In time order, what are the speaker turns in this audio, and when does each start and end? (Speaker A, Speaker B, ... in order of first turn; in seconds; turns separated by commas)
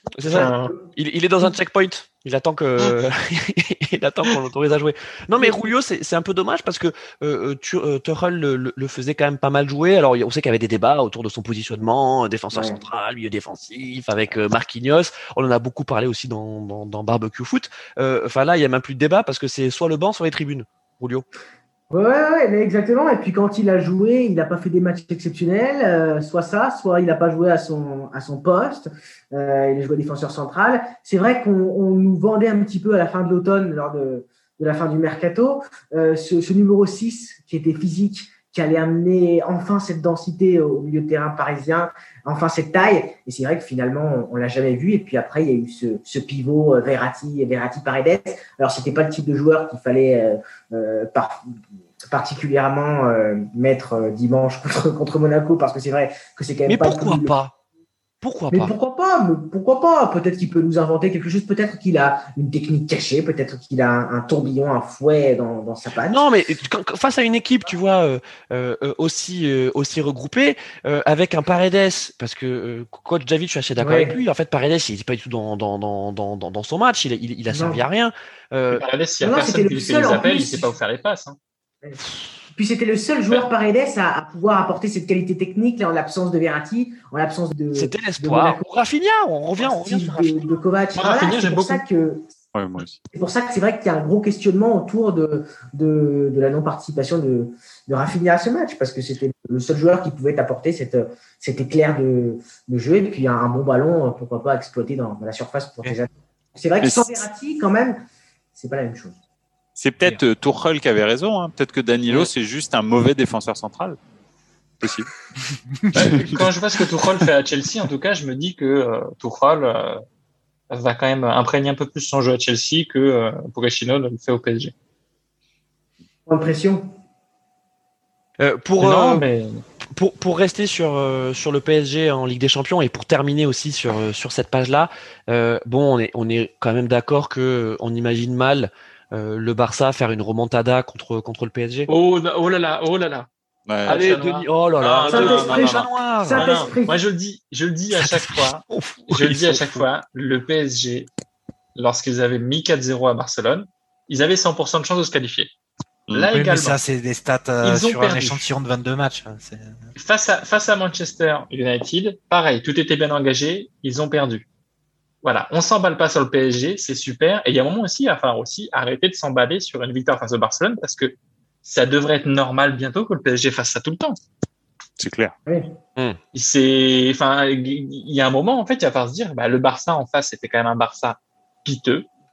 Speaker A: 0.2-21.2, Speaker B: 0.3-0.8, Speaker C: 12.5-12.8, Speaker C: 21.9-51.5, Speaker C: 52.0-57.3, Speaker A: 56.7-57.5, Speaker A: 58.2-58.7, Speaker C: 58.5-66.2, Speaker A: 66.1-78.8, Speaker C: 73.8-74.2, Speaker C: 77.5-77.8, Speaker B: 78.7-81.4, Speaker C: 79.2-80.7, Speaker C: 82.5-88.6, Speaker A: 87.7-90.4, Speaker C: 89.6-92.2, Speaker B: 91.0-91.8, Speaker D: 92.5-93.0, Speaker C: 93.1-108.0, Speaker D: 106.8-107.2, Speaker C: 108.5-109.2, Speaker D: 109.8-114.0, Speaker D: 114.8-115.1, Speaker E: 115.8-116.2, Speaker B: 115.9-120.0, Speaker D: 116.1-116.4, Speaker B: 120.7-124.7, Speaker C: 126.3-126.9, Speaker A: 128.4-129.2, Speaker B: 128.8-129.6, Speaker A: 129.9-141.9, Speaker B: 141.9-143.3, Speaker D: 143.7-144.1, Speaker B: 143.8-151.1, Speaker A: 143.9-146.5, Speaker C: 145.1-147.0, Speaker A: 147.9-149.8, Speaker B: 151.8-155.5, Speaker D: 156.1-156.3, Speaker B: 156.1-156.8, Speaker E: 156.3-159.9, Speaker B: 157.6-158.5, Speaker B: 159.9-164.4, Speaker B: 165.2-174.2, Speaker D: 175.0-175.3, Speaker C: 175.4-175.8, Speaker B: 176.3-182.1